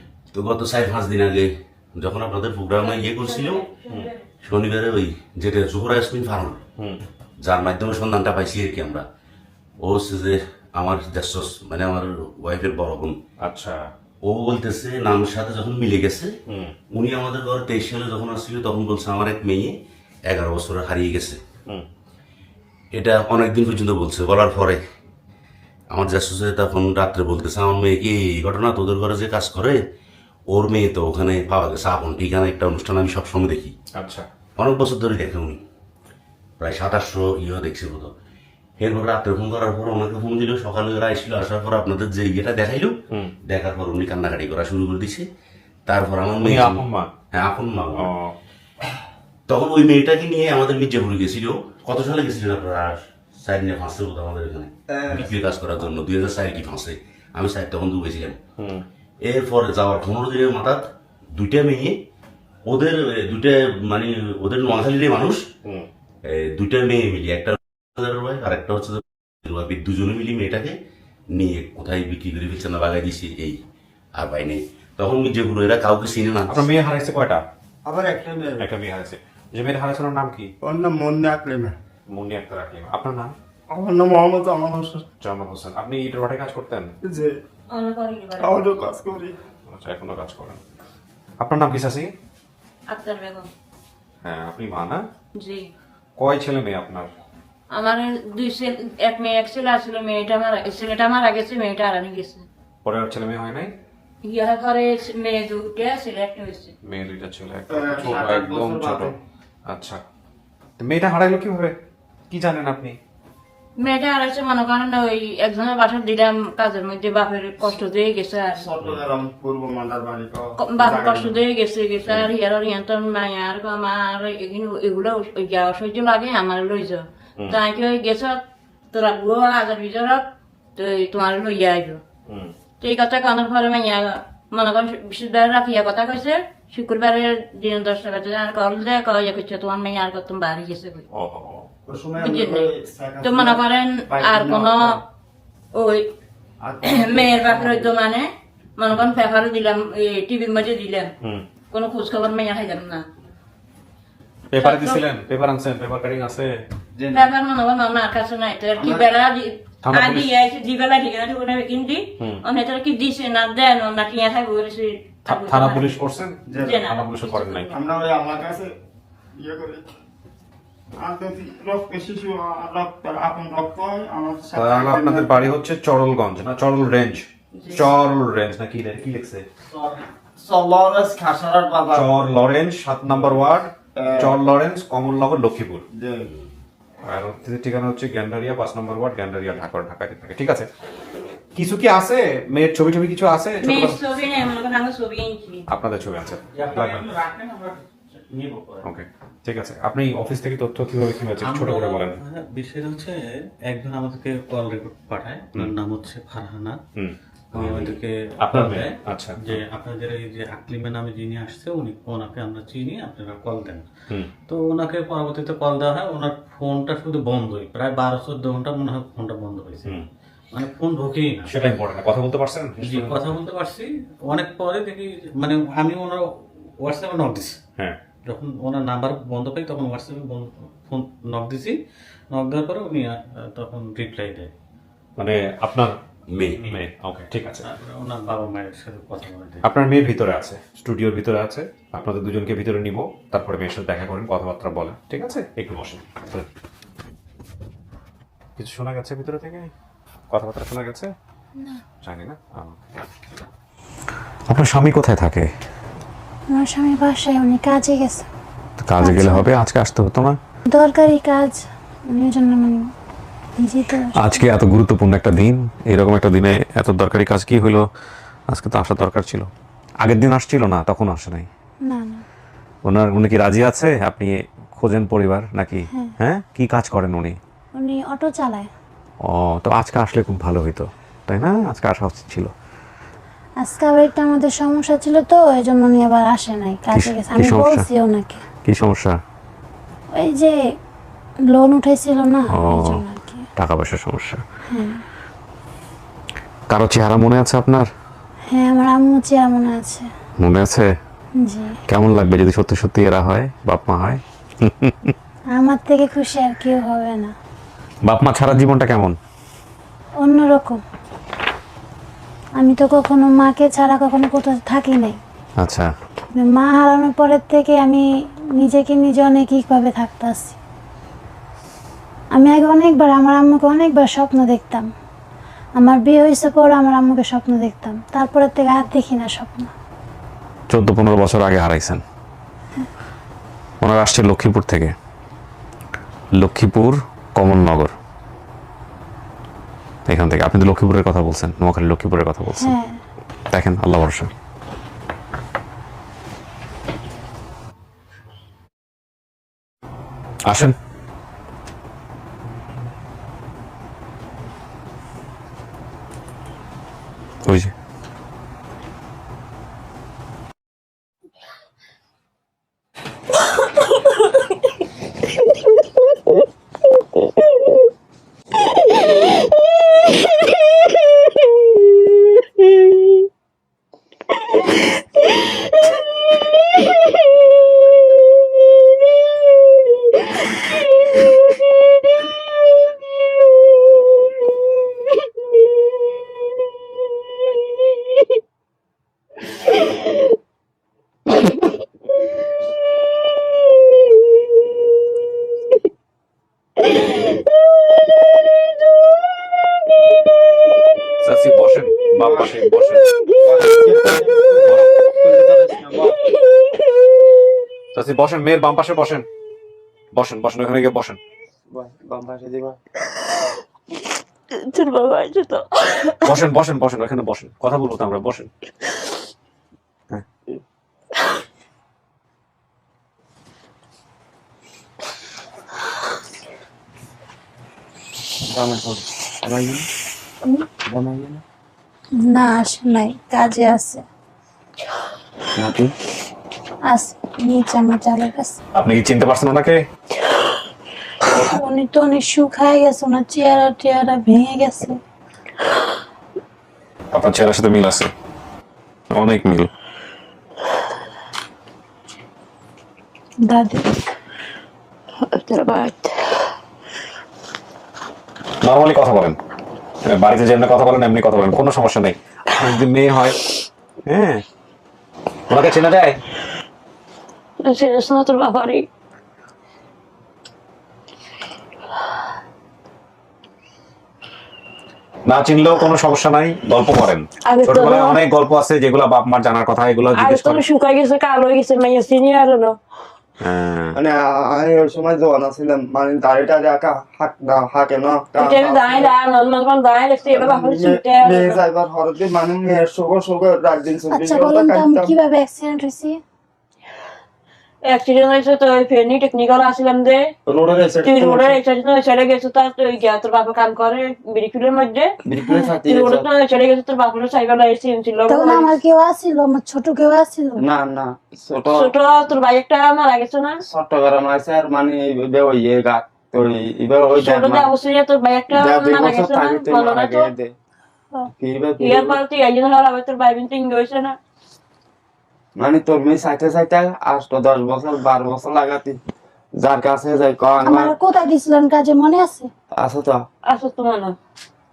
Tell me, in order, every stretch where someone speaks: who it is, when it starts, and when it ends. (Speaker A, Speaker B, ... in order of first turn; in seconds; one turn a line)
Speaker A: 0.3-3.7
Speaker B: 2.8-4.1
Speaker A: 4.4-6.6
Speaker A: 7.4-9.1
Speaker A: 9.8-13.2
Speaker C: 13.4-13.8
Speaker A: 14.2-16.3
Speaker C: 16.5-16.7
Speaker A: 16.9-21.4
Speaker A: 22.9-24.8
Speaker A: 25.9-29.8
Speaker A: 30.5-33.8
Speaker C: 34.0-34.3
Speaker A: 34.6-35.6
Speaker A: 36.6-38.1
Speaker A: 38.8-45.3
Speaker A: 45.9-48.1
Speaker C: 46.4-47.1
Speaker C: 48.0-48.3
Speaker A: 49.5-58.4
Speaker D: 54.9-55.3
Speaker C: 58.6-58.8
Speaker A: 59.2-62.0
Speaker A: 62.6-65.5
Speaker A: 66.2-70.8
Speaker A: 71.3-73.6
Speaker A: 74.2-76.7
Speaker C: 76.5-77.4
Speaker D: 77.9-78.7
Speaker C: 78.6-80.5
Speaker D: 80.6-81.8
Speaker C: 82.1-83.3
Speaker D: 83.7-85.1
Speaker C: 85.2-86.9
Speaker D: 87.0-87.4
Speaker B: 87.7-88.7
Speaker D: 88.4-89.4
Speaker C: 89.7-90.6
Speaker C: 91.4-92.1
Speaker B: 92.9-93.5
Speaker C: 94.2-95.0
Speaker B: 95.4-95.7
Speaker C: 96.2-97.1
Speaker B: 97.7-102.5
Speaker C: 102.8-103.7
Speaker B: 104.2-106.7
Speaker C: 106.8-109.1
Speaker D: 107.7-109.2
Speaker C: 109.7-110.0
Speaker C: 110.8-111.8
Speaker C: 112.3-113.0
Speaker B: 113.8-118.7
Speaker D: 118.5-121.4
Speaker B: 120.6-128.4
Speaker B: 128.9-132.0
Speaker C: 132.3-132.5
Speaker B: 132.8-141.1
Speaker C: 141.1-141.7
Speaker D: 141.9-145.0
Speaker B: 142.2-142.7
Speaker B: 143.2-145.0
Speaker B: 145.7-146.1
Speaker D: 146.6-147.9
Speaker B: 146.8-151.1
Speaker B: 151.7-153.1
Speaker C: 154.5-156.6
Speaker B: 154.6-155.0
Speaker D: 157.0-157.3
Speaker B: 157.1-166.0
Speaker D: 158.8-159.1
Speaker C: 159.8-160.3
Speaker C: 165.3-167.7
Speaker D: 166.5-166.9
Speaker B: 166.6-167.6
Speaker D: 167.7-168.7
Speaker D: 169.3-169.9
Speaker D: 171.0-175.5
Speaker C: 174.6-179.5
Speaker B: 177.6-177.9
Speaker E: 179.7-180.0
Speaker D: 180.4-182.1
Speaker C: 181.9-185.8
Speaker D: 183.9-184.3
Speaker D: 185.9-186.3
Speaker C: 187.0-190.7
Speaker C: 191.6-194.0
Speaker B: 193.6-195.7
Speaker C: 195.7-197.1
Speaker E: 196.5-198.8
Speaker C: 198.8-202.2
Speaker E: 201.4-206.8
Speaker C: 207.0-209.6
Speaker E: 207.5-213.9
Speaker E: 214.5-219.9
Speaker E: 220.5-221.5
Speaker C: 221.4-223.3
Speaker E: 222.8-226.3
Speaker E: 226.8-227.6
Speaker E: 228.3-231.8
Speaker E: 232.3-234.5
Speaker C: 235.2-236.0
Speaker A: 236.3-236.7
Speaker C: 236.6-237.7
Speaker E: 237.6-239.6
Speaker C: 239.6-246.5
Speaker C: 248.6-249.7
Speaker C: 250.3-251.1
Speaker C: 252.0-252.8
Speaker C: 254.5-255.5
Speaker F: 256.5-258.3
Speaker C: 258.8-260.4
Speaker F: 259.0-259.5
Speaker F: 260.7-262.9
Speaker F: 263.6-264.4
Speaker C: 264.2-267.9
Speaker C: 268.5-269.5
Speaker C: 270.0-271.5
Speaker F: 271.9-272.2
Speaker C: 272.9-277.4
Speaker F: 277.8-278.7
Speaker C: 279.2-282.5
Speaker F: 283.6-288.4
Speaker C: 286.9-287.9
Speaker C: 288.6-289.2
Speaker F: 290.1-290.6
Speaker F: 291.5-293.5
Speaker C: 292.5-293.0
Speaker C: 293.6-294.4
Speaker F: 294.7-295.0
Speaker C: 296.7-297.9
Speaker F: 298.5-300.1
Speaker C: 300.4-300.9
Speaker F: 301.4-301.8
Speaker C: 301.9-305.1
Speaker F: 305.5-307.4
Speaker C: 308.0-309.2
Speaker F: 310.2-310.8
Speaker F: 312.6-315.2
Speaker C: 315.6-315.9
Speaker F: 316.4-320.6
Speaker F: 322.3-324.9
Speaker F: 325.8-329.7
Speaker C: 330.7-332.0
Speaker C: 333.8-334.9
Speaker C: 336.4-337.9
Speaker C: 340.1-342.8
Speaker F: 342.6-343.0
Speaker C: 343.5-344.3
Speaker C: 350.5-350.8
Speaker C: 357.4-357.7
Speaker C: 401.2-403.0
Speaker D: 402.2-402.6
Speaker D: 403.4-406.2
Speaker C: 407.9-409.2
Speaker C: 410.1-411.2
Speaker D: 411.7-412.8
Speaker G: 414.5-416.3
Speaker C: 416.2-418.5
Speaker D: 428.4-429.9
Speaker D: 430.9-431.4
Speaker F: 432.2-434.0
Speaker D: 435.6-435.9
Speaker F: 436.9-438.6
Speaker C: 438.8-439.8
Speaker F: 441.3-445.0
Speaker C: 447.1-448.1
Speaker C: 449.1-449.7
Speaker F: 453.5-454.0
Speaker G: 455.2-456.2
Speaker C: 458.6-459.4
Speaker C: 460.1-463.4
Speaker C: 464.1-464.4
Speaker C: 465.5-466.2
Speaker G: 467.6-468.9
Speaker C: 475.3-480.6
Speaker G: 477.5-478.2
Speaker G: 480.1-482.8
Speaker C: 483.4-484.0
Speaker D: 483.9-489.1
Speaker G: 488.4-491.6
Speaker D: 490.3-495.1
Speaker F: 494.1-496.2
Speaker G: 497.9-500.2
Speaker D: 500.5-501.6
Speaker G: 501.0-505.1
Speaker D: 505.3-506.2
Speaker F: 505.4-505.7
Speaker G: 505.9-508.7
Speaker F: 508.3-510.6
Speaker D: 510.6-511.9
Speaker G: 511.7-513.6
Speaker D: 513.6-517.7
Speaker G: 517.2-520.3
Speaker D: 518.5-520.5
Speaker D: 521.4-522.2
Speaker G: 521.8-524.2
Speaker D: 525.6-529.0
Speaker D: 529.6-530.9
Speaker F: 530.6-532.5
Speaker D: 532.8-533.2
Speaker G: 533.5-534.2